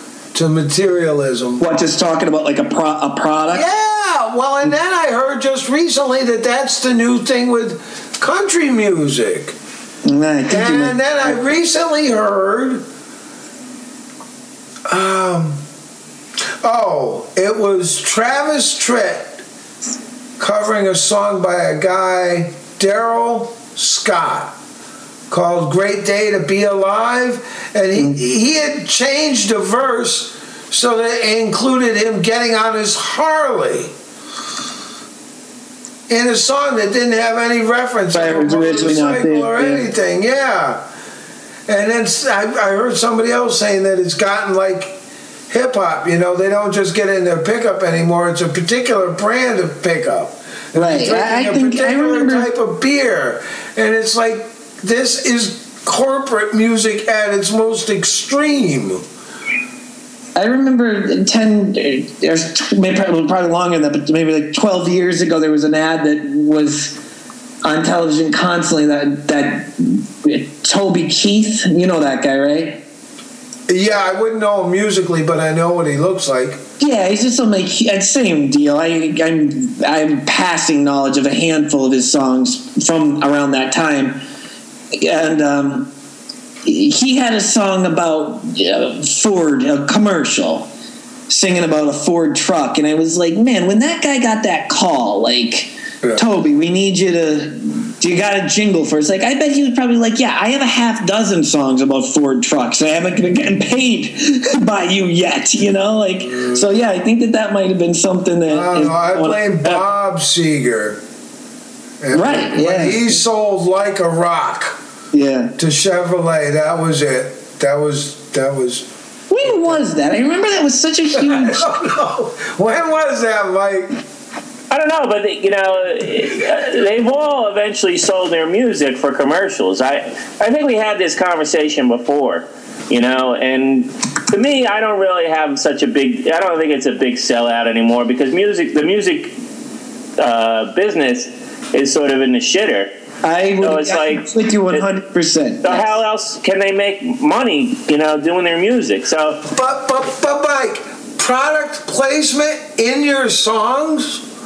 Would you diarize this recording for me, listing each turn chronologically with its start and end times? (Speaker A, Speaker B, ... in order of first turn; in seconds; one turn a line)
Speaker A: 0.3-1.6
Speaker B: 1.6-3.6
Speaker A: 3.5-9.6
Speaker B: 10.1-11.3
Speaker A: 10.5-12.8
Speaker A: 14.9-15.6
Speaker A: 16.6-19.4
Speaker A: 20.4-24.6
Speaker A: 25.3-33.9
Speaker A: 36.1-40.8
Speaker B: 38.1-39.9
Speaker A: 41.7-45.0
Speaker A: 45.5-59.0
Speaker B: 50.8-52.5
Speaker B: 60.4-67.0
Speaker B: 67.6-72.8
Speaker A: 73.7-76.6
Speaker B: 76.8-84.2
Speaker B: 84.9-85.9
Speaker B: 86.7-90.7
Speaker B: 91.3-109.8
Speaker A: 108.5-111.0
Speaker A: 112.0-114.8
Speaker B: 112.1-113.1
Speaker B: 115.1-115.5
Speaker A: 115.6-118.9
Speaker B: 119.3-121.7
Speaker A: 119.4-119.8
Speaker A: 121.2-124.0
Speaker C: 124.7-139.3
Speaker C: 140.2-142.9
Speaker B: 143.2-145.9
Speaker C: 143.6-144.8
Speaker C: 145.6-149.4
Speaker A: 149.5-154.2